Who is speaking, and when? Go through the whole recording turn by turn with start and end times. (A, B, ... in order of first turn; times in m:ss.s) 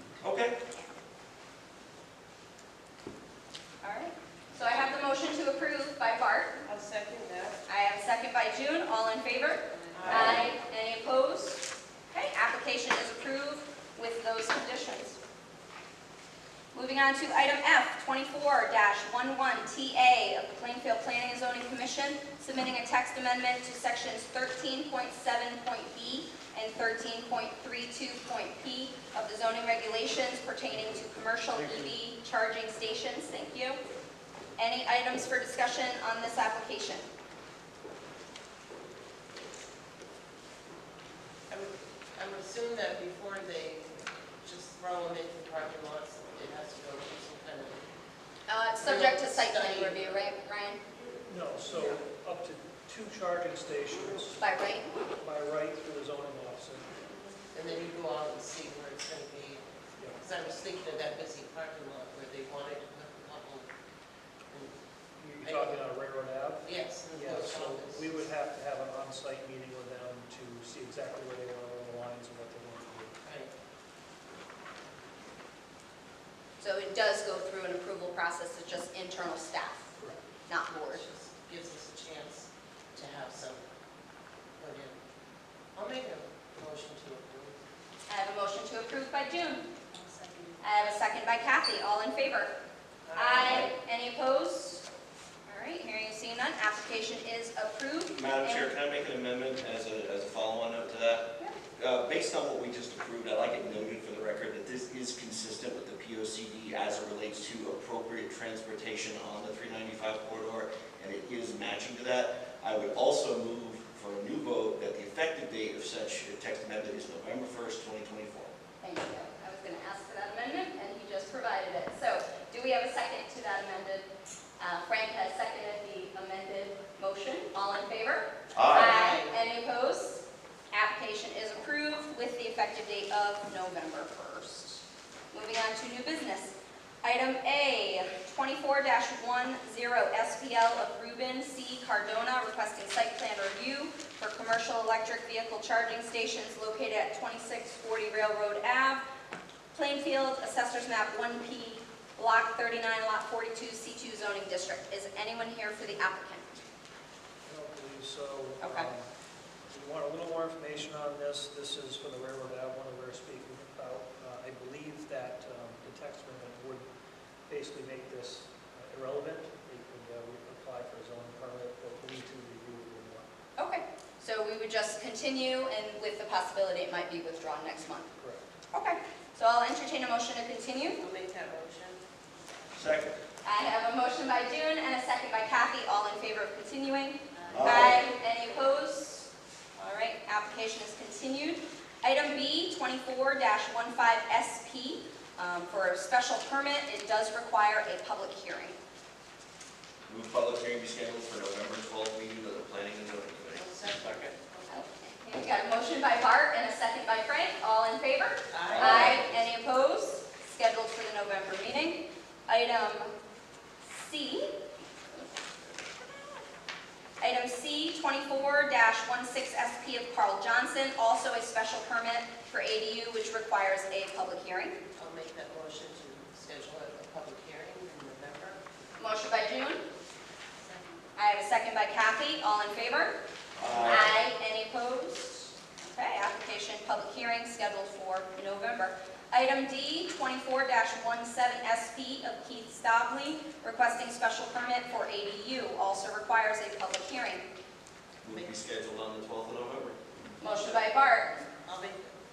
0:00.2-0:00.6 A
0:03.8-0:06.6 B
0:06.6-0:07.6 C
0:07.7-0:15.2 B
0:09.9-0:10.5 C
0:10.0-0:10.5 A
0:16.7-0:33.8 B
0:34.6-0:37.1 B
0:41.5-0:47.8 C
0:48.5-0:50.8 B
0:48.8-0:50.2 C
0:51.3-0:54.4 D
0:54.4-0:54.9 B
0:55.2-0:56.9 D
0:57.5-0:59.6 C
1:00.2-1:03.7 C
1:05.2-1:13.1 D
1:05.4-1:05.8 C
1:06.6-1:08.2 C
1:13.2-1:13.5 C
1:16.6-1:19.9 B
1:20.5-1:21.0 B
1:20.7-1:23.6 C
1:24.6-1:25.0 C
1:25.7-1:27.6 C
1:28.1-1:29.7 B
1:29.9-1:30.6 C
1:30.6-1:32.5 B
1:33.0-1:33.7 C
1:33.1-1:34.8 B
1:33.4-1:33.7 A
1:35.4-1:38.7 B
1:38.1-1:58.5 A
1:58.8-2:04.1 B
2:04.6-2:29.0 B
2:08.5-2:08.9 A
2:08.7-2:09.3 C
2:29.7-2:36.6 B
2:37.4-2:39.1 D
2:38.6-2:38.9 B
2:39.7-2:46.8 D
2:47.5-2:53.2 D
2:53.6-2:58.1 B
2:58.2-2:58.5 D
2:58.7-3:01.0 B
3:01.0-3:02.0 C
3:02.7-3:03.2 A
3:03.4-3:18.8 B
3:07.5-3:08.0 A
3:07.6-3:07.9 C
3:20.1-3:24.3 A
3:23.5-3:24.8 C
3:24.7-3:33.1 B
3:28.5-3:29.3 C
3:28.7-3:29.4 A
3:33.8-3:34.5 B
3:37.2-3:44.8 B
3:45.0-3:48.6 C
3:49.0-3:49.8 B
3:50.6-3:51.0 C
3:51.2-3:53.2 B
3:53.6-3:54.1 A
3:53.8-4:07.4 B
4:08.2-4:10.0 A
4:10.4-4:11.4 B
4:11.6-4:12.2 C